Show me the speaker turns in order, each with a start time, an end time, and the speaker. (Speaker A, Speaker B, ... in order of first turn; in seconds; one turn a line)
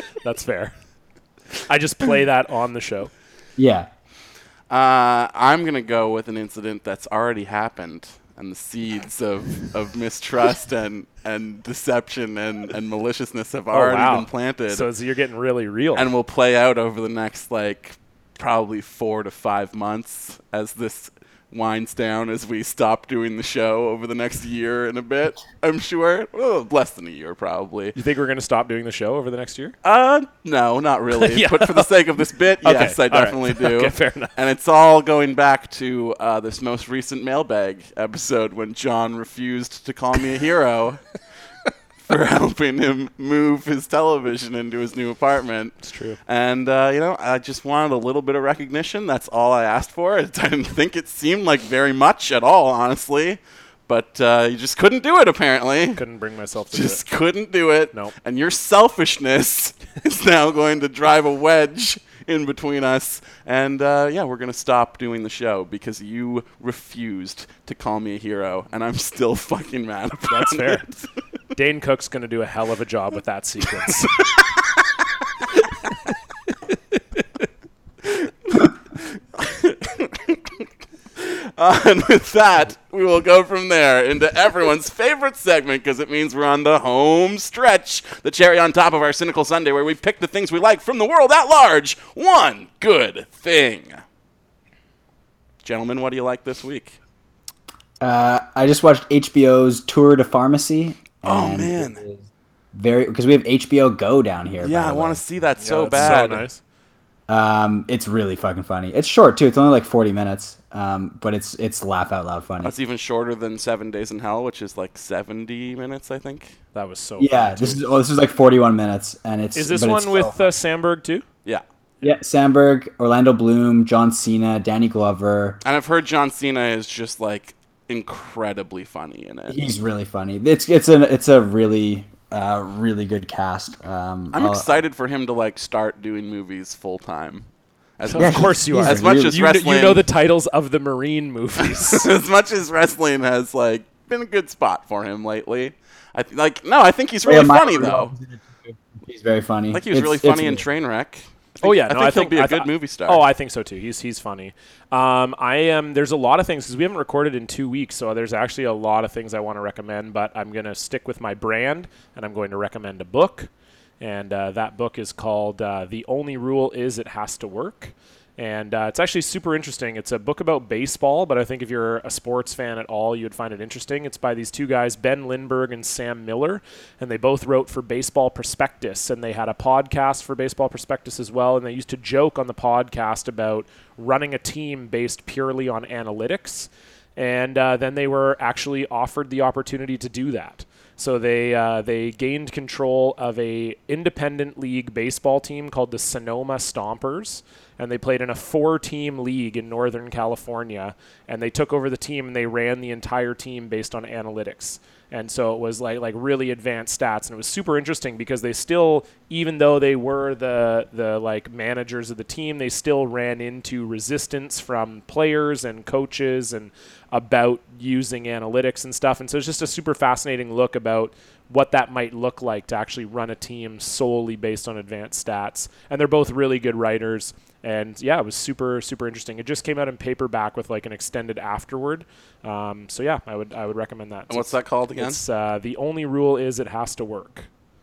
Speaker A: 0.2-0.7
Speaker A: 1.6-3.1
Speaker B: 3.6-3.9
Speaker C: 4.7-14.8
Speaker A: 13.7-16.1
Speaker C: 15.9-27.9
Speaker A: 27.9-29.7
Speaker C: 29.8-41.0
Speaker A: 31.1-31.9
Speaker A: 32.6-34.3
Speaker C: 42.0-56.0
Speaker A: 45.8-46.2
Speaker A: 56.0-57.0
Speaker C: 56.7-71.0
Speaker A: 70.3-70.9
Speaker A: 71.5-74.3
Speaker C: 78.0-78.7
Speaker C: 79.3-80.6
Speaker C: 81.2-94.0
Speaker C: 95.6-97.0
Speaker B: 98.0-105.2
Speaker C: 101.2-102.0
Speaker C: 104.6-106.5
Speaker A: 105.6-106.6
Speaker B: 106.0-106.2
Speaker B: 107.3-112.7
Speaker C: 112.6-116.5
Speaker A: 116.7-117.9
Speaker B: 117.2-120.5
Speaker A: 119.5-121.2
Speaker B: 122.0-125.6
Speaker C: 125.6-129.7
Speaker B: 129.5-134.8
Speaker C: 134.3-137.5
Speaker C: 138.0-140.0
Speaker A: 138.1-142.1
Speaker B: 138.2-139.4
Speaker C: 141.9-148.1
Speaker B: 147.2-150.6
Speaker C: 149.7-153.2
Speaker A: 151.6-237.5
Speaker C: 234.3-235.2